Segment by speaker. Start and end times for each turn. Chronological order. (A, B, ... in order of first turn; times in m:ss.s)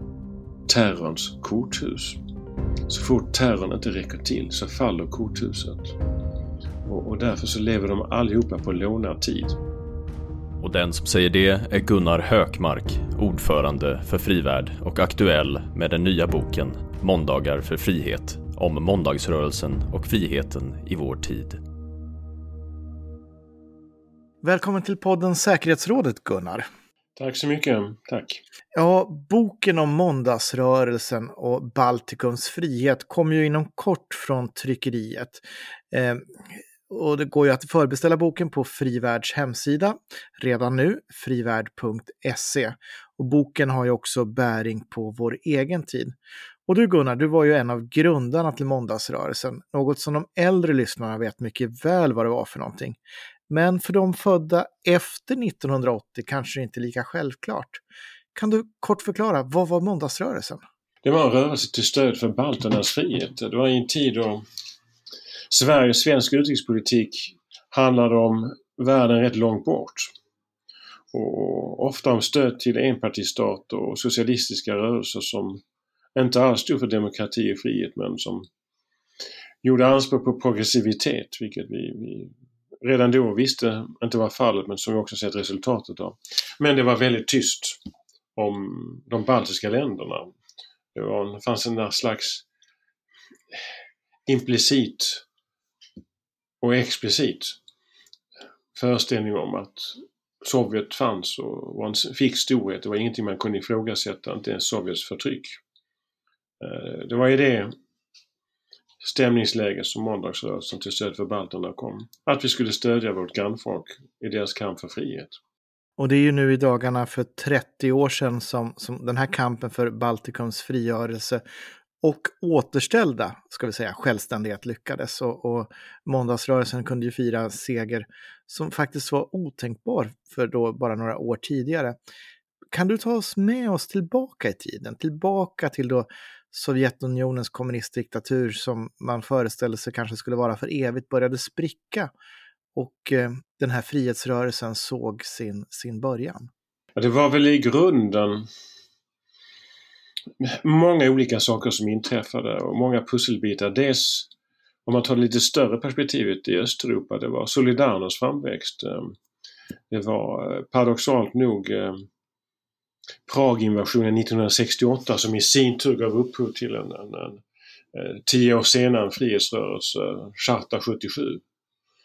0:00.7-0:02.2 A
0:02.9-0:06.0 A
0:06.8-0:09.6 A
0:10.6-0:21.6 B
0:24.4-0:26.6 C
0:27.2-0:28.4 A
0:28.7-0:46.1 C
0:46.7-0:57.8 C
0:58.3-1:00.6 C
1:01.0-1:04.4 A
1:05.5-1:10.1 A
1:11.1-1:15.6 A
1:16.2-1:18.4 A
1:19.6-1:27.8 A
1:28.4-1:30.3 A
1:30.9-1:32.4 A
1:34.3-1:35.2 A
1:36.6-1:37.6 A
1:38.7-1:45.6 A
1:46.6-1:47.7 A
1:49.0-1:55.4 A
1:56.0-2:01.4 C
2:02.0-2:12.0 C
2:12.7-2:22.1 C
2:22.7-2:26.5 C
2:27.0-2:28.5 A
2:30.4-2:34.3 A
2:34.8-2:39.2 A
2:39.9-2:42.1 A
2:43.3-2:47.4 A
2:47.9-2:51.4 A